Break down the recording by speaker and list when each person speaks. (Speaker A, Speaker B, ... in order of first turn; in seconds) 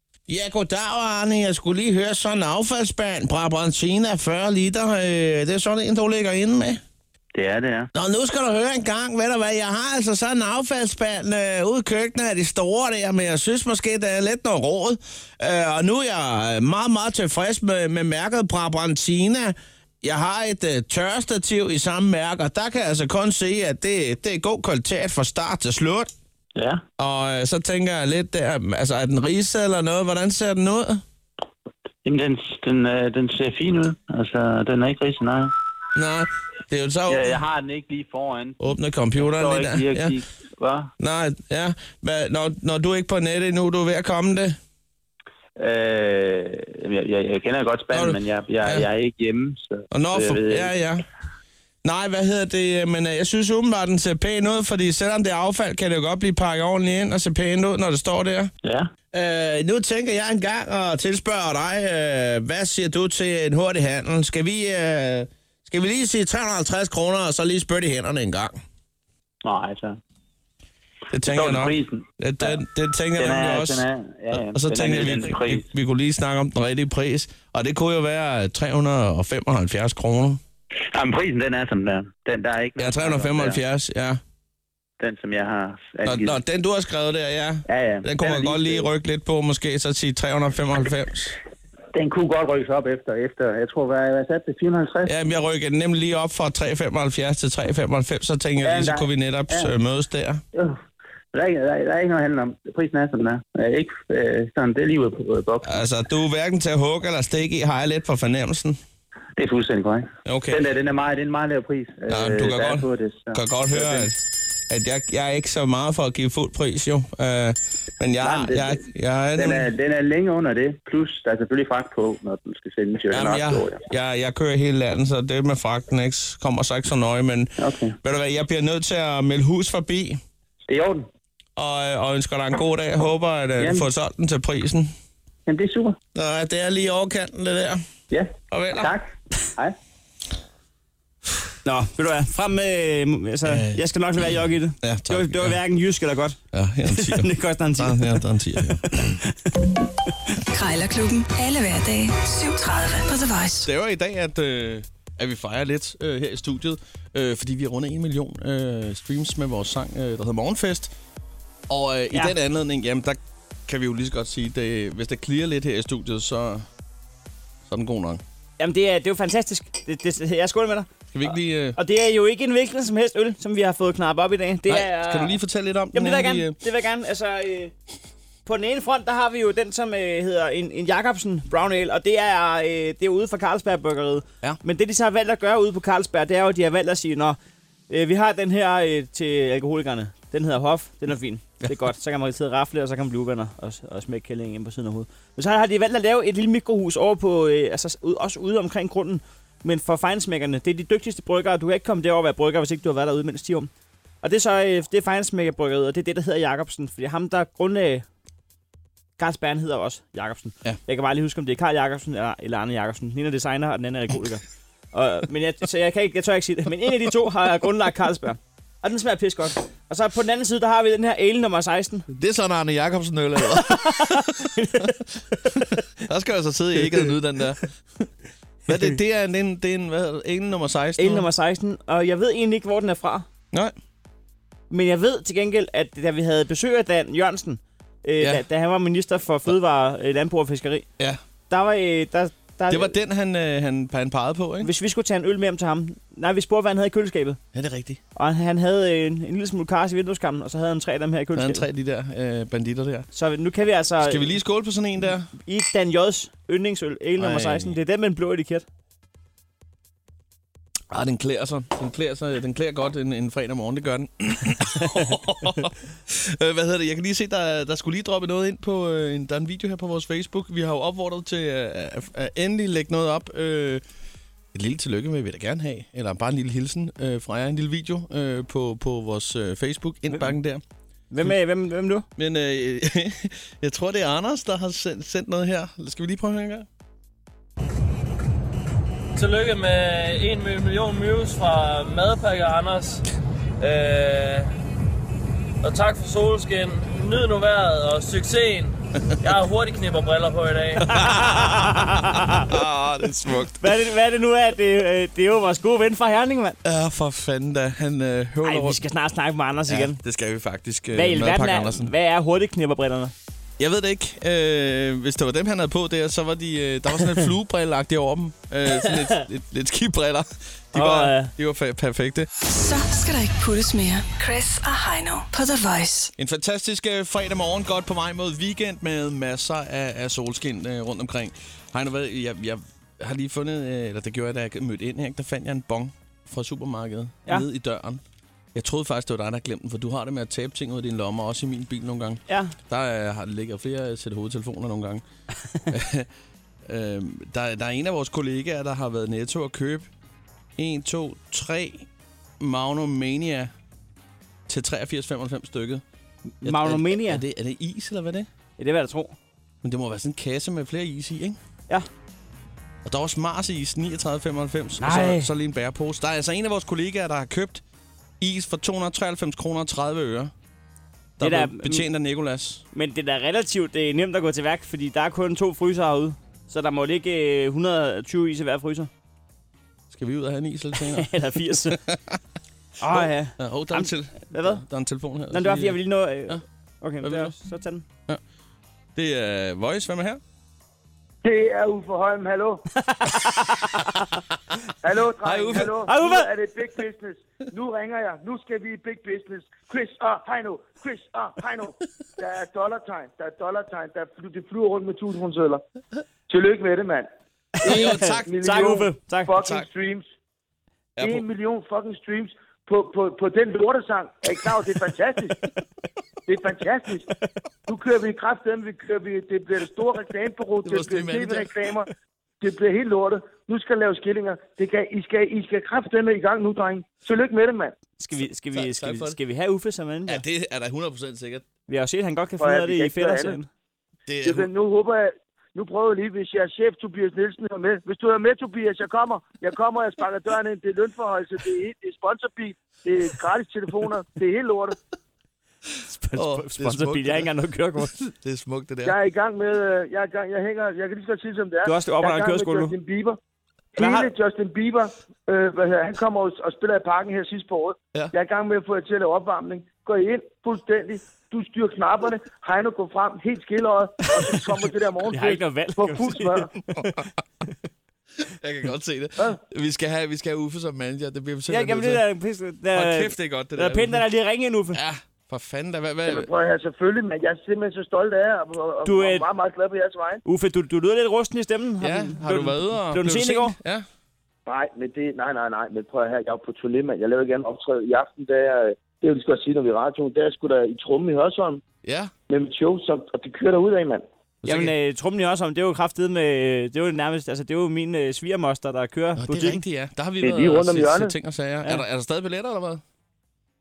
Speaker A: 0.3-6.8, 7.9-26.1, 27.0-31.0, 36.0-37.3, 38.6-40.1, 41.0-44.6, 47.9-48.9, 49.9-51.0, 51.8-58.5, 59.1-68.6, 71.1-73.8, 74.3-80.4, 82.8-84.2, 86.1-91.3, 95.1-100.4, 105.6-108.8, 110.3-110.6, 112.1-114.2, 114.7-119.7, 123.1-130.2, 131.6-134.9, 136.1-137.8, 138.5-138.9, 143.4-143.8, 144.8-145.6, 146.5-149.1, 153.6-160.9, 161.7-166.7, 167.7-168.2, 171.1-171.8, 174.7-176.6, 222.1-228.1, 228.7-231.3, 242.7-244.7, 247.5-248.0, 251.3-253.1, 254.0-255.3, 257.2-257.8, 260.9-273.8, 274.5-280.6, 282.2-286.7, 300.8-301.6, 302.5-303.8, 306.6-308.8, 309.7-311.9, 313.6-322.3, 326.2-338.0, 338.6-345.0, 345.7-346.1, 346.7-349.9, 350.6-351.9, 352.4-353.5, 354.5-355.8, 356.4-358.3, 359.6-361.4, 362.9-367.6, 368.2-370.3, 371.2-372.6, 379.9-382.2, 382.8-386.4, 387.0-387.4, 389.0-390.2, 395.2-395.9, 407.6-408.6, 409.4-409.7, 411.0-411.3, 420.6-421.8, 428.2-429.2, 430.1-431.4, 434.1-434.5, 446.1-449.0, 466.8-467.1, 468.2-472.0, 472.7-474.0, 474.7-476.3, 481.8-483.9, 491.8-492.1, 494.4-494.7, 499.2-502.8
Speaker B: 7.3-7.9, 26.6-26.8, 32.0-35.5, 37.1-38.6, 39.2-40.9, 45.6-50.7, 58.6-58.9, 69.4-70.0, 71.2-72.6, 73.2-75.7, 80.9-83.6, 85.0-86.4, 87.7-88.9, 91.9-95.1, 98.6-99.7, 100.5-100.8, 101.3-105.8, 109.4-114.1, 118.2-123.8, 127.6-128.0, 130.7-131.1, 133.6-133.9, 135.5-136.0, 138.1-139.8
Speaker C: 141.6-149.5, 168.6-170.9, 171.8-175.4, 175.9-177.7, 178.5-187.4, 187.9-203.7, 204.2-208.1, 209.2-222.1, 223.6-224.9, 231.0-233.3, 234.7-240.9, 241.5-243.0, 244.6-247.4, 248.1-251.7, 253.1-254.4, 255.3-258.6, 281.1-282.1, 301.2-302.4, 303.6-306.6, 308.4-310.0, 310.9-313.1, 318.8-319.1, 320.7-321.3, 342.3-342.6, 356.4-357.2, 358.6-359.1, 364.8-365.3, 371.2-371.9, 372.7-378.9, 380.8-381.8, 382.8-384.6, 385.3-387.9, 392.9-394.1, 395.8-396.3, 407.6-409.4, 428.0-430.2, 431.7-433.5, 445.9-448.0, 451.7-452.7, 453.8-454.1, 465.1-467.1, 471.5-474.8, 478.9-479.3, 480.2-483.6, 494.4-499.6
Speaker D: 150.5-153.7, 322.4-326.1
Speaker E: 289.1-293.0, 293.6-294.5, 295.6-301.0
Speaker F: 391.2-392.6, 394.8-405.6, 406.3-407.1, 407.7-410.1, 411.0-415.4, 416.3-417.1, 417.7-421.9, 422.4-427.8, 432.4-433.4, 434.2-444.8, 448.8-453.2, 453.8-466.5, 476.1-480.2, 484.5-491.6, 492.3-494.1, 500.2-501.1